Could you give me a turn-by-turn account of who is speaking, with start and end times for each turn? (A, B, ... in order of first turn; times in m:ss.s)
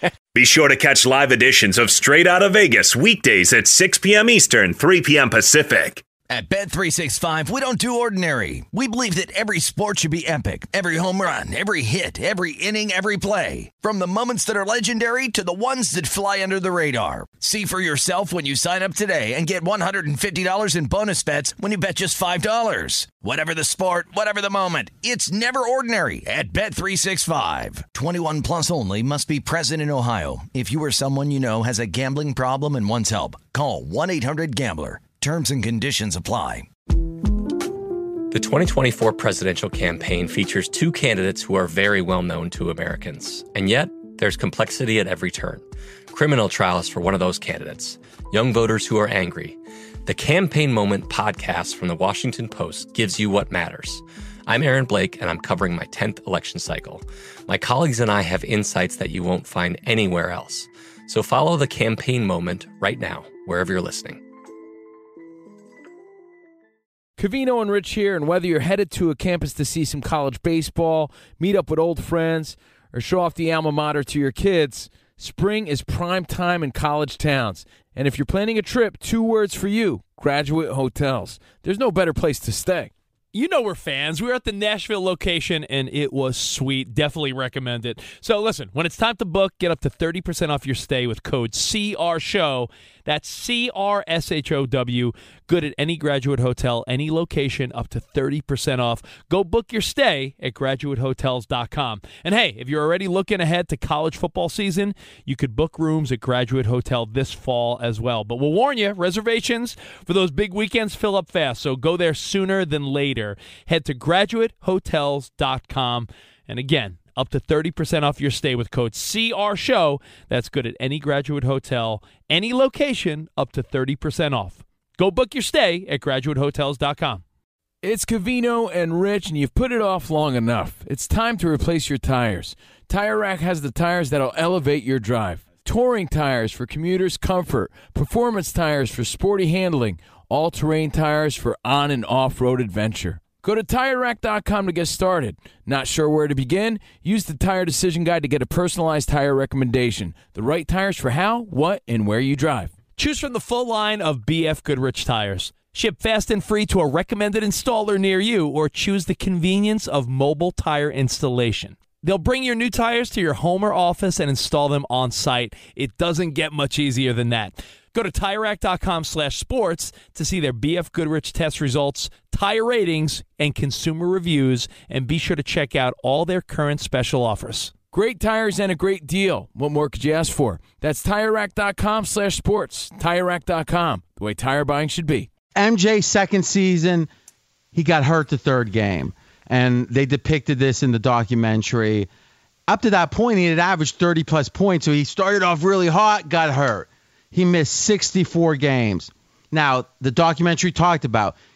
0:00.3-0:06.0 A
0:06.3-0:36.7 B
0:38.3-1:04.2 C
1:07.2-1:22.9 D
1:23.3-2:07.2 E
2:07.8-2:32.8 D
2:32.9-2:57.8 E
2:57.9-3:05.3 D
3:05.6-3:07.1 F
3:07.7-3:12.1 F
3:12.7-3:21.4 F